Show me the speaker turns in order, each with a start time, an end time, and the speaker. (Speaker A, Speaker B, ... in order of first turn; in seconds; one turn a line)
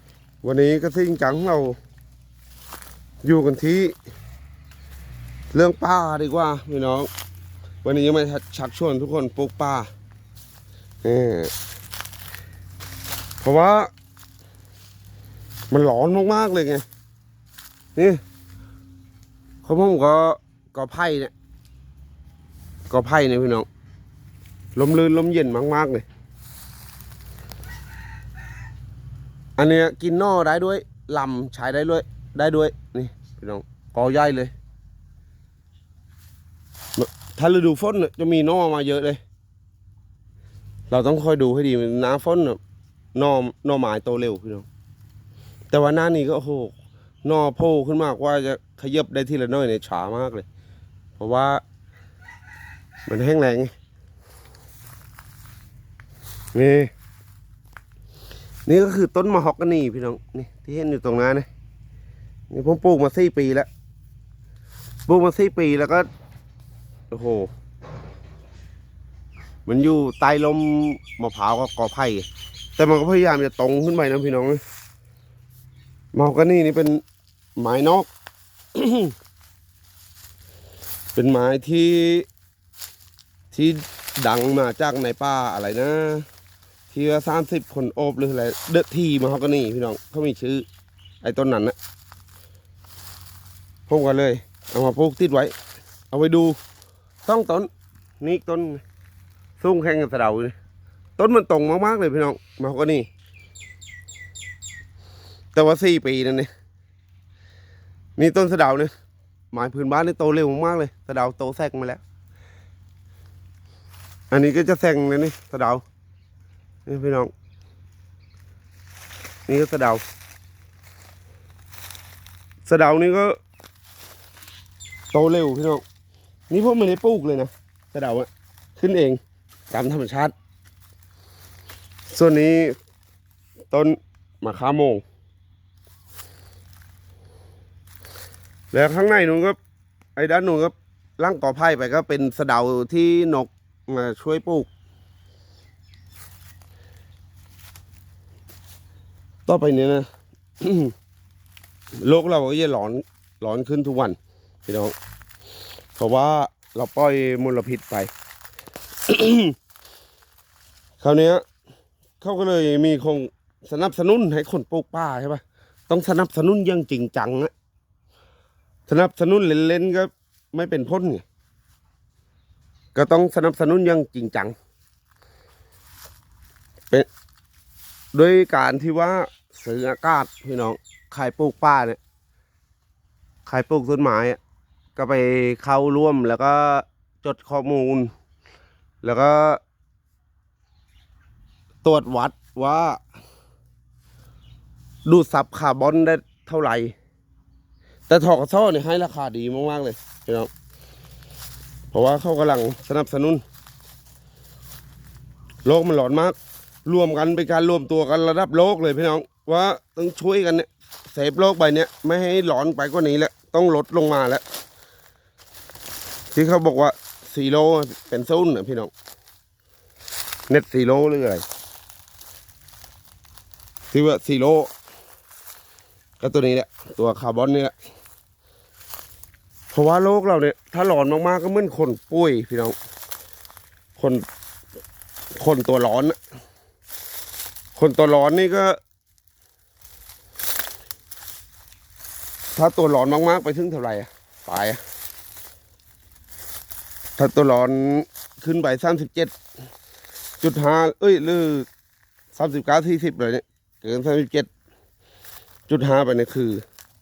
Speaker A: 0.4-1.8
Speaker A: 3.2-3.9
Speaker A: 5.5-7.1
Speaker A: 7.8-9.9
Speaker A: 11.0-11.5
Speaker A: 13.4-13.9
Speaker A: 15.7-16.8
Speaker A: 17.9-18.2
Speaker A: 19.6-21.3
Speaker A: 22.9-23.6
Speaker A: 24.8-26.0
Speaker A: 29.6-34.5
Speaker A: 37.0-39.2
Speaker A: 40.9-42.6
Speaker A: 43.1-44.7
Speaker A: 45.7-46.7
Speaker A: 47.2-50.4
Speaker A: 51.2-51.6
Speaker A: 53.1-53.7
Speaker A: 56.5-56.9
Speaker A: 58.7-61.5
Speaker A: 62.5-63.7
Speaker A: 65.1-66.0
Speaker A: 67.1-67.5
Speaker A: 69.7-72.2
Speaker A: 72.8-74.6
Speaker A: 76.1-77.0
Speaker A: 77.6-78.1
Speaker A: 78.7-79.1
Speaker A: 81.1-82.2
Speaker A: 83.5-86.2
Speaker A: 86.9-90.6
Speaker A: 91.2-91.7
Speaker A: 93.9-95.5
Speaker A: 96.1-96.5
Speaker A: 97.2-97.7
Speaker A: 98.2-98.8
Speaker A: 99.6-100.5
Speaker A: 101.2-103.1
Speaker A: 105.5-106.5
Speaker A: 108.2-108.9
Speaker A: 109.5-112.0
Speaker A: 114.3-115.8
Speaker A: 116.8-117.3
Speaker A: 119.5-120.0
Speaker A: 122.7-123.3
Speaker A: 125.1-125.8
Speaker A: 126.5-129.2
Speaker A: 129.7-130.3
Speaker A: 132.1-132.8
Speaker A: 133.7-135.0
Speaker A: 138.7-139.6
Speaker A: 140.2-144.7
Speaker A: 149.4-150.1
Speaker A: 150.6-150.9
Speaker A: 152.0-154.9
Speaker A: 155.9-158.1
Speaker A: 159.1-159.5
Speaker A: 161.0-161.4
Speaker A: 162.2-167.5
Speaker A: 168.9-171.2
Speaker A: 172.9-174.5
Speaker A: 178.1-182.0
Speaker A: 183.5-184.4
Speaker A: 184.9-188.1
Speaker A: 189.0-189.6
Speaker A: 191.8-193.0
Speaker A: 195.1-196.9
Speaker A: 198.1-200.5
Speaker A: 201.9-203.4
Speaker A: 205.6-214.4
Speaker A: 216.3-218.9
Speaker A: 220.5-221.4
Speaker A: 223.9-224.7
Speaker A: 226.2-227.7
Speaker A: 229.7-232.7
Speaker A: 234.0-234.2
Speaker A: 235.3-236.2
Speaker A: 237.8-238.8
Speaker A: 242.6-244.8
Speaker A: 247.2-249.3
Speaker A: 250.4-251.7
Speaker A: 252.3-254.5
Speaker A: 255.7-256.6